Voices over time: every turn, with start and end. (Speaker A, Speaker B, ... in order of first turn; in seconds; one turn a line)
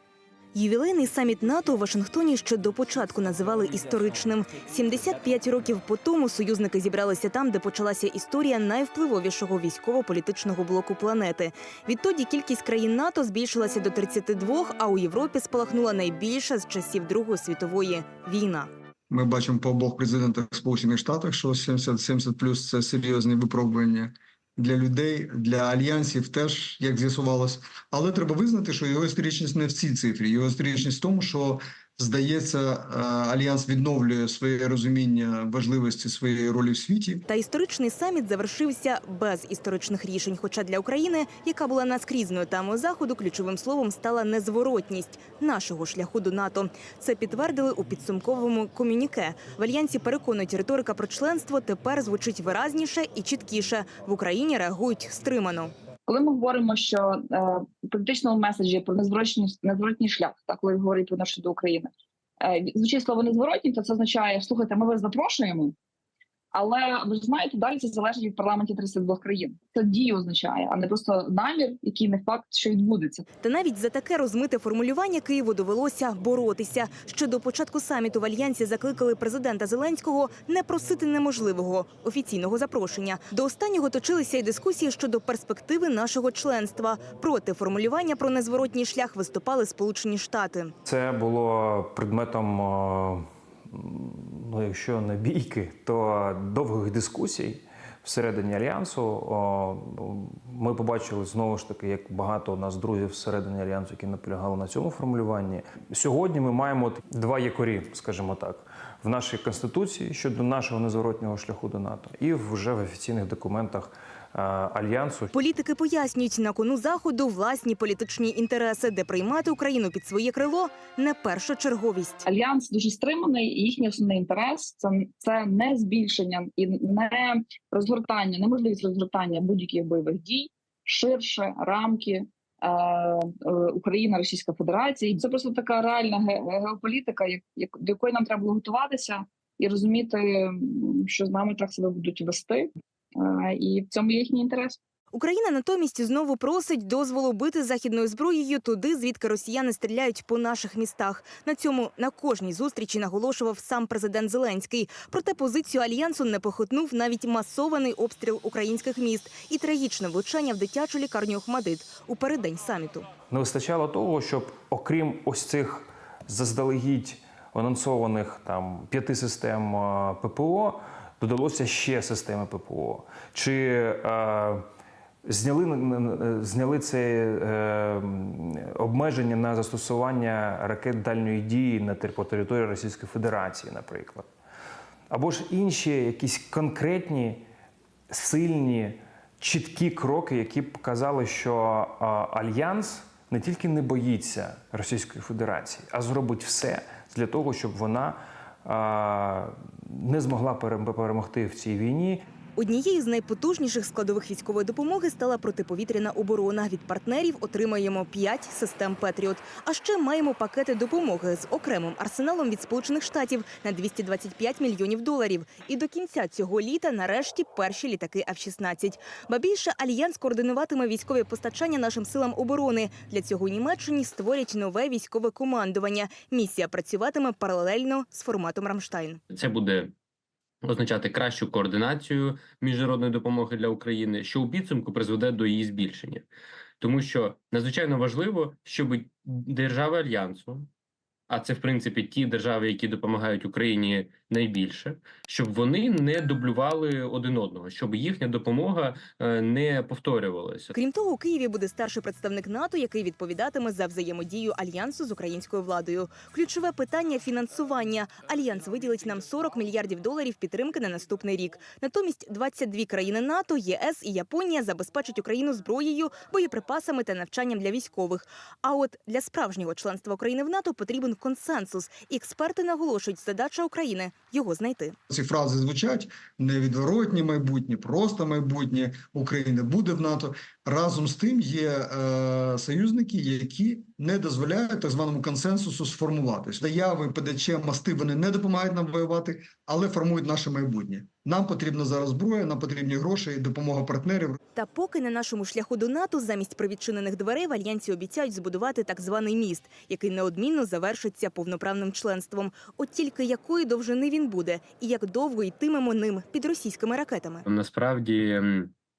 Speaker A: 0.5-18.7
Speaker B: 19.1-37.2
Speaker A: 37.3-55.7
Speaker C: 56.1-65.8
Speaker C: 66.5-73.2
Speaker A: 73.4-90.8
Speaker D: 90.9-115.3
Speaker A: 115.3-122.2
Speaker C: 122.3-144.8
Speaker A: 145.1-163.1
Speaker D: 163.3-174.6
Speaker D: 175.2-184.3
Speaker D: 185.1-187.4
Speaker D: 188.1-202.2
Speaker A: 202.6-229.2
Speaker E: 229.3-229.9
Speaker E: 230.6-236.2
Speaker E: 236.8-240.7
Speaker E: 241.3-250.7
Speaker A: 250.7-274.9
Speaker B: 275.1-294.4
Speaker A: 294.5-307.4
Speaker E: 307.4-308.7